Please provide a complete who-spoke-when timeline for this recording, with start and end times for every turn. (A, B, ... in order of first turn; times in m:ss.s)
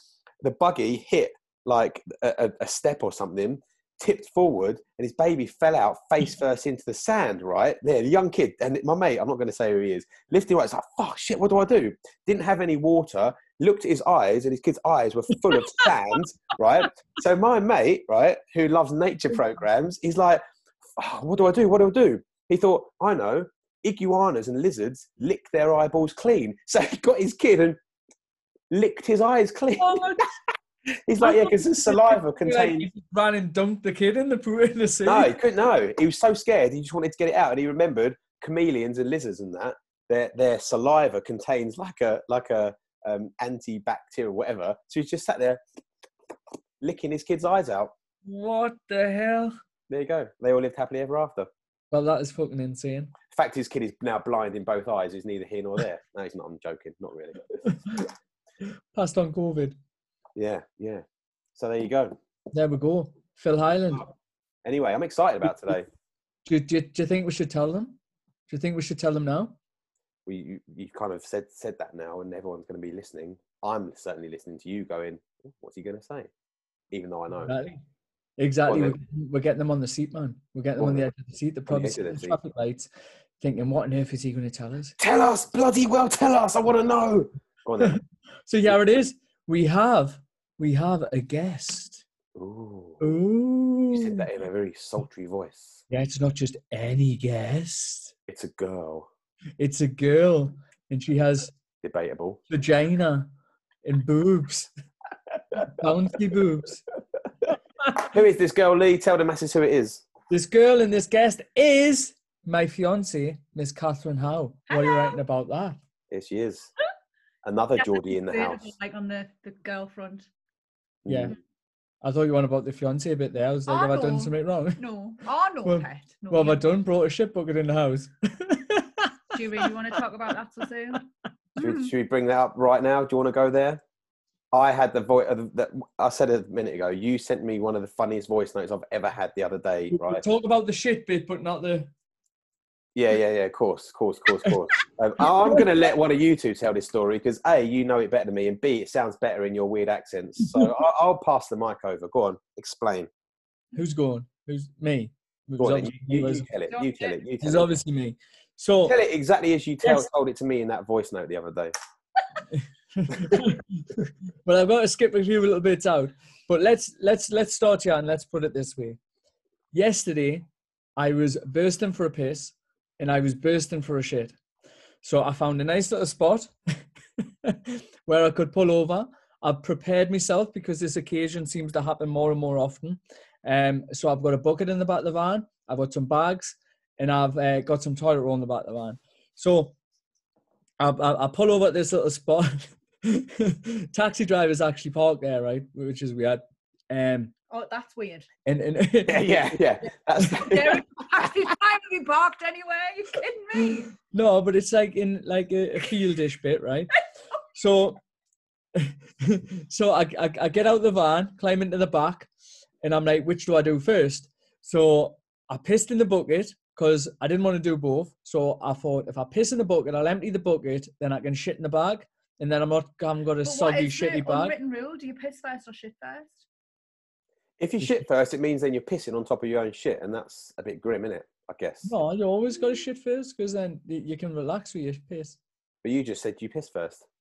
0:00.4-0:20.4 A
0:15.5-0:15.9 B
0:21.0-0:27.8 A
0:28.7-0:30.1 A
0:29.7-0:30.3 B
0:31.1-0:32.9 A
0:31.2-0:35.3 B
0:35.0-0:45.6 A
0:46.8-0:47.9 A
0:48.2-0:49.5 B
0:49.9-0:51.5 A
0:51.9-0:53.1 B
0:53.3-0:57.6 A
0:57.6-0:58.1 B
0:58.6-0:59.8 B
1:00.4-1:01.0 A
1:01.6-1:02.2 A
1:02.5-1:04.1 B
1:04.6-1:05.9 A
1:06.4-1:09.6 B
1:10.2-1:16.3 A
1:16.9-1:17.5 A
1:17.4-1:17.8 B
1:18.4-1:22.9 B
1:18.6-1:19.0 A
1:20.8-1:21.0 A
1:21.7-1:22.4 A
1:23.4-1:25.0 B
1:25.0-1:28.0 A
1:27.8-1:32.0 B
1:32.4-1:33.2 A
1:33.0-1:34.3 B
1:33.9-1:35.8 A
1:35.9-1:38.1 B
1:38.3-1:39.1 A
1:39.6-1:41.5 B
1:41.8-1:42.4 A
1:42.5-1:43.3 B
1:43.8-1:44.7 B
1:45.5-1:46.8 B
1:47.8-1:48.1 B
1:48.0-1:50.0 A
1:50.3-1:55.8 B
1:54.7-1:55.2 C
1:56.1-1:56.7 A
1:57.4-1:58.7 A
1:57.8-2:00.3 C
2:01.0-2:01.3 A
2:01.1-2:01.3 B
2:02.0-2:04.8 B
2:03.7-2:06.6 C
2:05.6-2:10.0 B
2:09.3-2:11.0 C
2:11.6-2:11.9 C
2:11.6-2:13.8 A
2:14.5-2:20.2 A
2:19.9-2:21.9 B
2:23.0-2:33.1 A
2:25.2-2:25.6 B
2:30.4-2:30.7 B
2:33.8-2:36.5 B
2:35.6-2:37.7 A
2:36.7-2:37.2 C
2:37.4-2:39.0 B
2:38.8-2:41.7 A
2:39.8-2:40.1 B
2:42.5-2:49.0 B
2:49.7-2:50.4 B
2:51.0-2:54.3 B
2:55.0-2:56.5 B
2:57.4-3:09.7 B
3:10.8-3:17.3 B
3:17.5-3:18.3 C
3:18.4-3:19.6 B
3:19.1-3:21.3 A
3:20.2-3:20.6 B
3:20.2-3:23.9 C
3:23.6-3:27.0 B
3:27.5-3:28.0 B
3:28.7-3:32.3 B
3:32.8-3:44.5 B
3:43.4-3:46.4 C
3:47.6-3:51.9 A
3:51.8-3:55.4 B
3:55.8-3:57.0 A